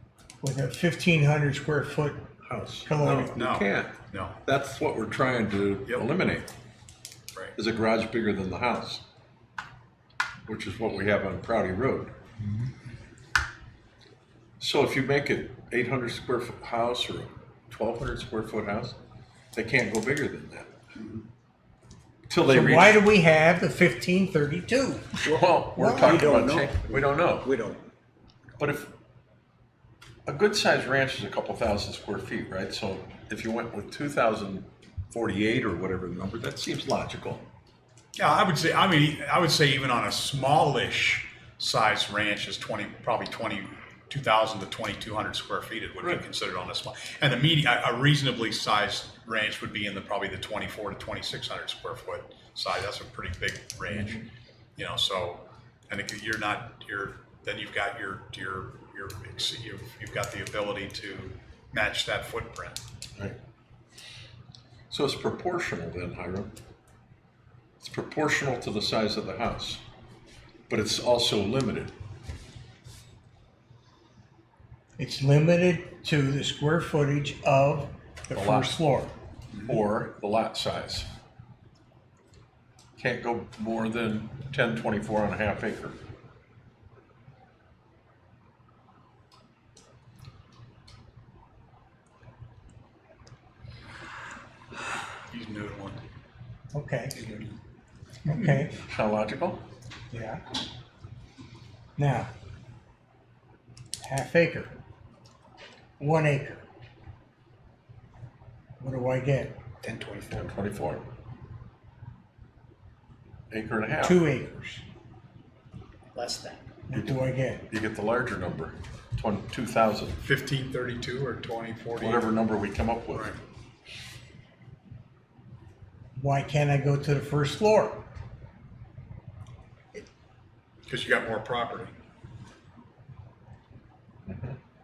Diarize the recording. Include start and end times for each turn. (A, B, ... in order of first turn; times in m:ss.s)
0:00.4-0:03.4 A
0:02.5-0:06.5 B
0:03.4-0:04.4 C
0:07.6-0:09.0 B
0:10.5-0:12.1 B
0:14.6-0:19.0 B
0:19.6-0:20.7 B
0:22.3-0:23.0 B
0:22.4-0:25.2 A
0:25.2-0:27.5 B
0:25.3-0:27.8 D
0:25.8-0:26.2 A
0:28.6-0:28.9 B
0:30.3-0:37.4 B
0:38.2-0:54.2 C
0:54.8-1:02.8 C
1:04.9-1:06.5 B
1:07.8-1:09.8 B
1:10.7-1:11.9 B
1:15.0-1:19.1 A
1:18.3-1:18.8 B
1:19.7-1:21.1 B
1:23.0-1:26.0 B
1:35.3-1:36.0 C
1:36.7-1:37.3 A
1:37.2-1:37.6 C
1:38.2-1:38.8 A
1:38.8-1:39.6 B
1:40.1-1:40.4 A
1:42.0-1:42.3 A
1:44.0-1:44.8 A
1:46.0-1:46.6 A
1:48.8-1:49.6 A
1:49.8-1:50.2 C
1:50.3-1:51.0 B
1:53.5-1:54.2 B
1:54.0-1:54.8 A
1:56.2-1:56.6 C
1:56.9-1:57.6 A
1:56.9-2:00.2 B
2:00.2-2:02.3 C
2:02.0-2:03.4 B
2:03.1-2:03.4 C
2:06.2-2:08.0 A
2:10.9-2:11.9 C
2:14.3-2:14.6 B